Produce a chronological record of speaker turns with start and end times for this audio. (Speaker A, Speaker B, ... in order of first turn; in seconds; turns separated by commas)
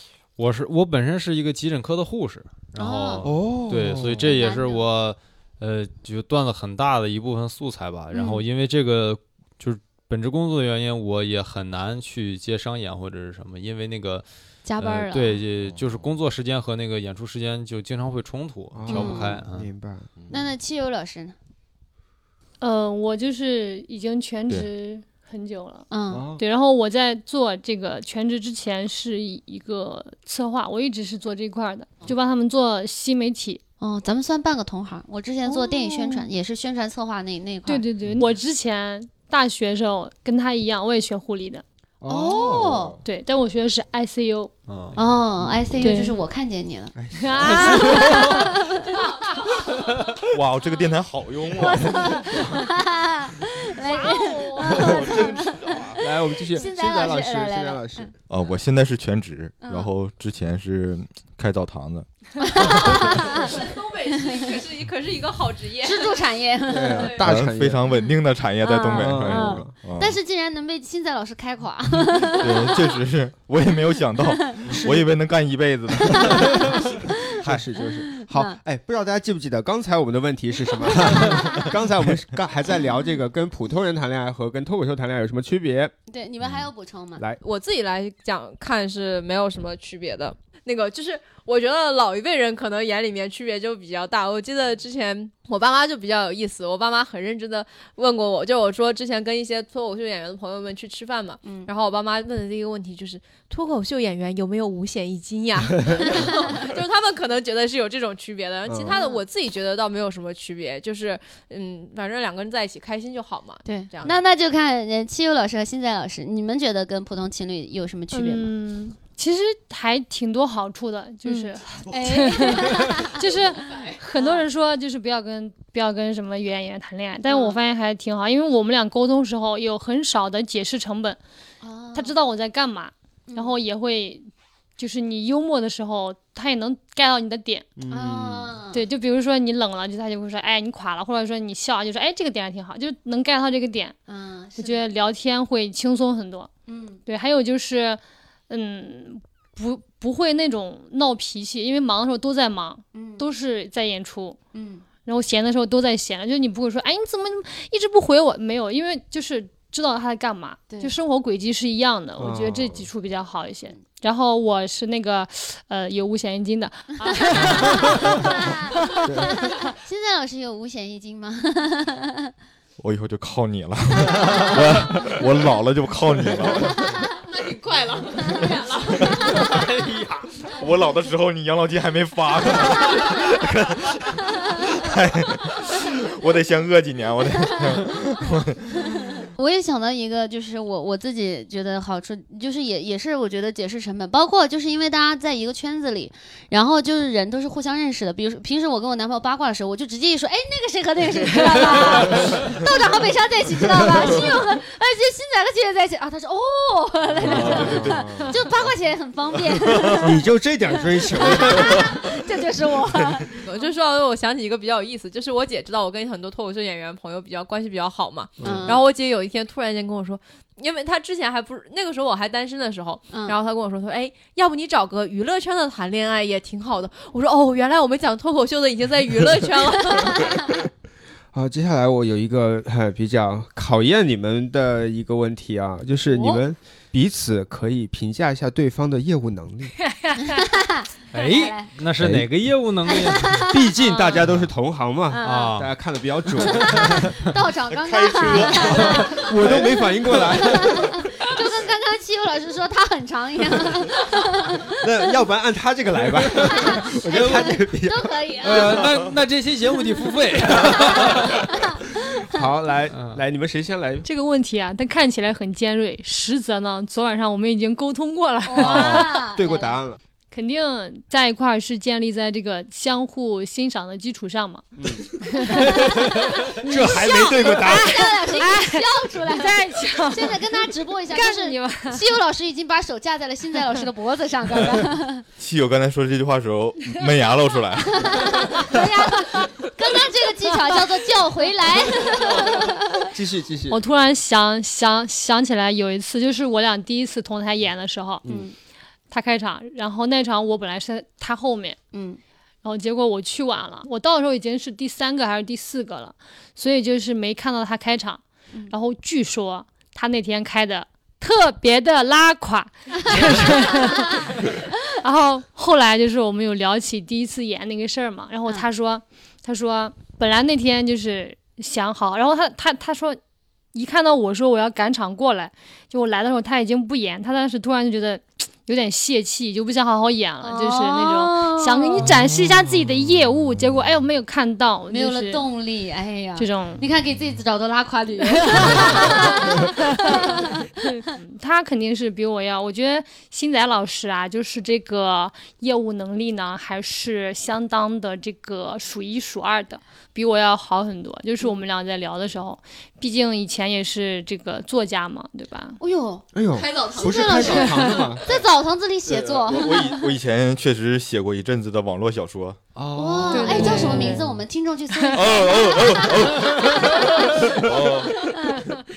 Speaker A: 0.4-14.2, Speaker B: 2.8-3.2, Speaker C: 3.2-4.3, Speaker B: 4.2-4.8, Speaker B: 8.1-8.4, Speaker B: 14.6-15.4, Speaker A: 14.8-19.7, Speaker C: 18.7-20.1, Speaker B: 18.9-19.4, Speaker B: 20.3-21.4, Speaker D: 22.6-25.9, Speaker B: 25.9-26.3, Speaker C: 26.1-26.4, Speaker D: 26.4-33.6, Speaker B: 33.8-37.8, Speaker D: 35.5-36.3, Speaker D: 37.6-41.6, Speaker C: 42.0-43.0, Speaker B: 42.1-43.0, Speaker D: 43.0-44.5, Speaker A: 44.7-45.0, Speaker B: 45.0-47.0, Speaker D: 45.8-46.1, Speaker C: 46.9-48.3, Speaker D: 47.2-48.5, Speaker B: 47.8-49.0, Speaker E: 50.2-52.1, Speaker B: 51.6-58.1, Speaker D: 53.8-55.0, Speaker E: 54.7-56.0, Speaker C: 56.0-58.1, Speaker E: 58.3-62.1, Speaker B: 59.6-59.9, Speaker B: 62.4-64.6, Speaker E: 62.7-63.1, Speaker F: 63.4-66.3, Speaker B: 65.8-67.2, Speaker C: 66.7-67.8, Speaker F: 67.0-67.2, Speaker E: 67.2-70.2, Speaker B: 67.9-73.0, Speaker C: 68.9-69.7, Speaker E: 72.3-76.6, Speaker B: 74.2-74.6, Speaker C: 74.7-75.1, Speaker B: 76.1-77.1, Speaker C: 76.1-85.9, Speaker B: 77.9-78.6, Speaker B: 80.9-81.6, Speaker B: 86.1-87.2, Speaker F: 87.4-114.2, Speaker B: 101.4-101.7, Speaker B: 106.1-106.6, Speaker C: 108.7-109.0, Speaker B: 108.9-109.2, Speaker B: 113.6-118.5, Speaker D: 118.1-131.2, Speaker B: 121.3-124.4, Speaker B: 127.3-127.6, Speaker B: 131.6-132.1, Speaker D: 131.9-134.3, Speaker B: 133.3-133.6, Speaker D: 134.8-137.7, Speaker C: 137.8-138.5, Speaker B: 137.9-138.8, Speaker D: 138.7-143.9, Speaker B: 144.1-144.9, Speaker D: 144.6-146.5, Speaker B: 146.7-147.0, Speaker D: 147.1-154.4, Speaker B: 152.9-153.2, Speaker B: 154.5-154.8, Speaker D: 155.1-168.9, Speaker C: 162.2-162.9, Speaker B: 167.1-172.3, Speaker C: 169.0-169.5, Speaker E: 172.8-177.0, Speaker F: 177.3-179.1, Speaker E: 179.0-179.6, Speaker A: 179.1-180.3, Speaker E: 180.5-188.8, Speaker B: 188.8-210.2, Speaker E: 203.9-204.3, Speaker E: 207.2-208.5, Speaker C: 207.2-208.3, Speaker E: 209.5-210.1, Speaker C: 209.9-211.8, Speaker B: 210.9-213.4, Speaker E: 211.5-211.9, Speaker F: 213.4-230.4, Speaker C: 218.4-218.8, Speaker B: 218.4-218.8, Speaker B: 223.1-223.4, Speaker B: 229.9-230.5, Speaker C: 231.3-239.7, Speaker B: 236.1-236.4, Speaker D: 239.8-240.5, Speaker B: 240.3-241.7, Speaker A: 241.1-243.4, Speaker C: 242.0-242.3, Speaker B: 242.9-244.1, Speaker C: 243.4-247.1, Speaker B: 245.1-245.5, Speaker A: 245.2-245.7, Speaker B: 246.4-249.6, Speaker E: 247.7-249.8, Speaker C: 248.6-251.1, Speaker B: 250.3-254.7, Speaker C: 254.8-258.8, Speaker B: 256.3-258.8, Speaker A: 258.4-261.5, Speaker C: 260.6-261.2, Speaker B: 261.5-262.4, Speaker C: 262.1-264.1, Speaker A: 262.9-263.2, Speaker D: 264.0-269.2, Speaker B: 268.4-269.7, Speaker C: 268.6-270.0, Speaker D: 270.3-274.6, Speaker C: 274.8-275.8, Speaker D: 275.2-282.0, Speaker C: 276.6-277.9, Speaker B: 276.7-285.2, Speaker E: 285.4-288.7, Speaker B: 288.0-293.1, Speaker D: 290.4-291.0, Speaker D: 292.1-292.7, Speaker C: 293.1-293.8, Speaker D: 293.7-298.3, Speaker B: 298.3-298.6, Speaker D: 299.1-301.8, Speaker B: 301.9-302.2, Speaker D: 302.6-323.2, Speaker B: 313.9-314.2, Speaker D: 323.7-335.4, Speaker B: 330.4-332.1, Speaker C: 332.2-332.5, Speaker B: 334.9-340.7, Speaker D: 336.4-336.8, Speaker D: 338.5-355.8, Speaker B: 355.8-356.3, Speaker C: 356.3-358.2, Speaker F: 356.5-358.2, Speaker B: 356.8-360.1, Speaker D: 357.6-357.9, Speaker E: 359.1-362.6, Speaker C: 362.7-364.3, Speaker B: 362.9-367.0, Speaker D: 363.3-364.2, Speaker D: 364.9-365.4, Speaker E: 365.1-368.4